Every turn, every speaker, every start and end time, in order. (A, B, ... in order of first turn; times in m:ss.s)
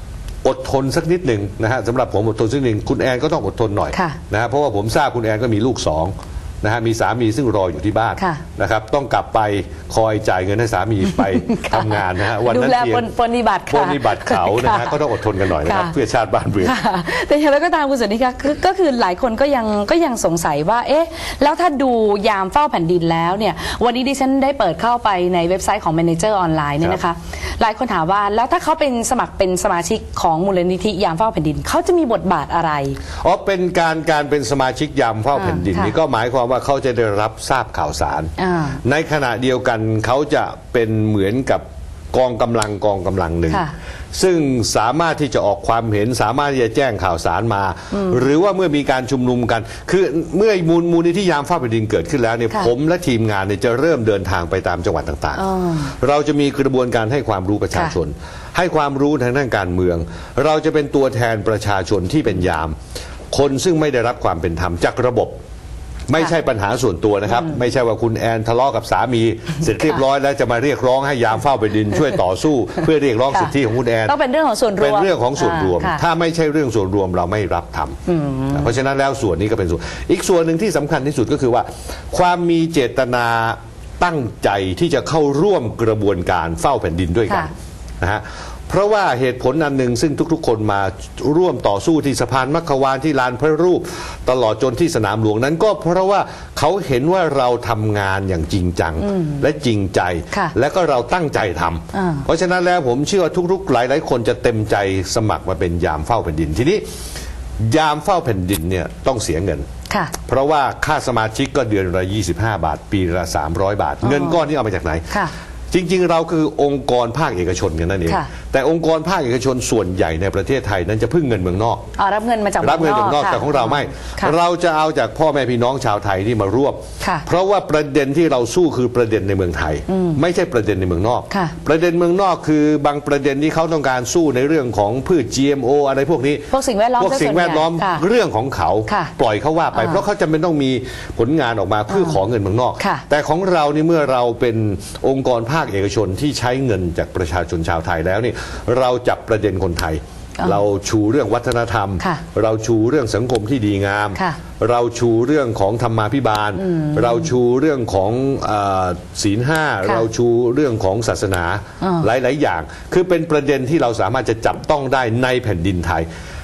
0:00.4-0:13.1 A
0:11.0-0:15.9 B
0:13.7-0:16.8 A
0:16.6-0:33.0 B
0:33.2-0:38.3 A
0:35.3-0:35.9 B
0:38.4-0:38.8 B
0:38.8-1:02.7 A
0:47.9-0:48.2 B
0:55.3-0:55.9 B
1:03.3-1:05.4 A
1:06.1-1:14.2 A
1:14.0-1:16.0 B
1:14.8-1:18.0 A
1:18.0-1:18.7 B
1:18.5-1:46.8 A
1:39.0-1:39.4 B
1:41.9-1:42.2 B
1:47.6-1:49.7 A
1:50.2-1:55.2 A
1:54.0-1:54.4 B
1:55.7-2:01.8 A
2:02.0-2:04.3 B
2:02.6-2:46.1 A
2:07.0-2:07.2 B
2:09.9-2:10.2 B
2:16.5-2:18.0 B
2:19.7-2:20.0 B
2:36.6-2:37.3 B
2:41.8-2:42.1 B